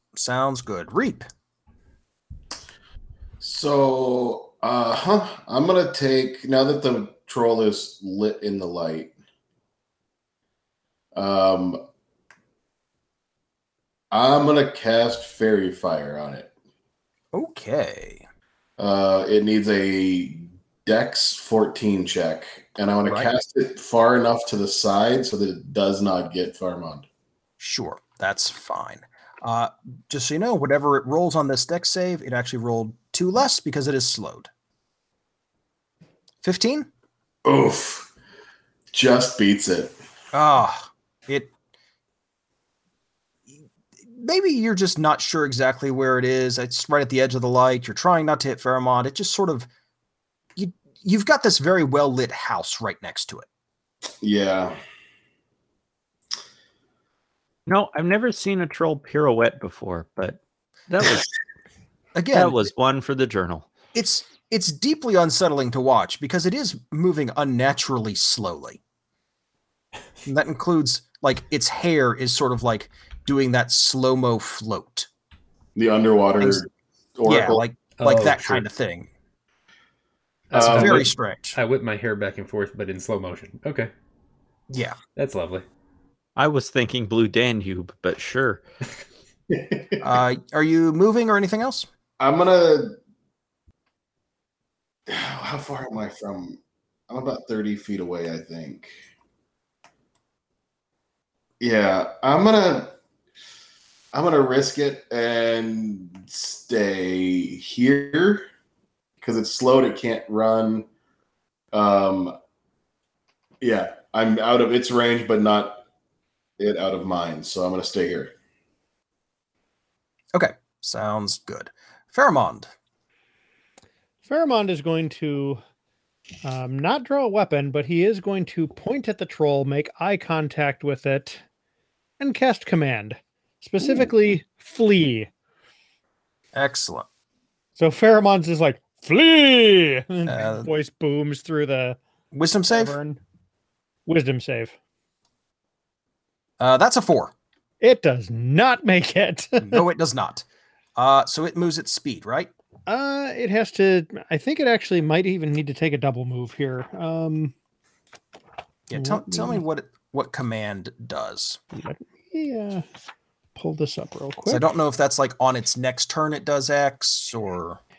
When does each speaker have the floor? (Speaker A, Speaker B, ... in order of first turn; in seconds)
Speaker A: 0.1-1.3, 17.3-18.2, 23.1-23.3, 27.6-34.5, 36.4-36.9, 40.3-41.5, 43.5-49.7, 50.6-53.5, 62.1-62.7, 63.9-68.8, 70.2-75.1, 77.3-79.1, 80.5-81.6, 84.7-85.0, 90.0-91.9, 120.3-122.7, 136.5-137.1, 140.3-140.7, 142.3-143.0, 146.6-147.3, 149.6-150.4, 151.0-152.5, 158.9-161.6, 164.5-167.8
Speaker B: 3.4-9.1, 11.2-11.8, 14.1-16.5, 18.8-27.1, 37.5-38.1, 38.9-40.0, 54.2-54.8, 75.8-77.6, 80.5-81.0, 89.5-90.0, 92.2-93.0, 95.1-98.9, 101.6-102.9, 104.1-108.5, 109.2-110.9, 111.7-112.4, 113.6-115.8, 116.6-118.3
Speaker C: 57.7-61.3, 62.3-63.7, 86.4-88.6
Speaker D: 78.0-78.7, 80.5-83.9, 85.2-85.7
Speaker E: 124.2-125.6, 126.4-131.4, 132.2-135.3, 137.8-142.0, 142.7-143.2, 144.1-144.8, 147.8-149.8, 152.9-157.5, 158.9-159.6, 161.7-162.8, 163.6-164.6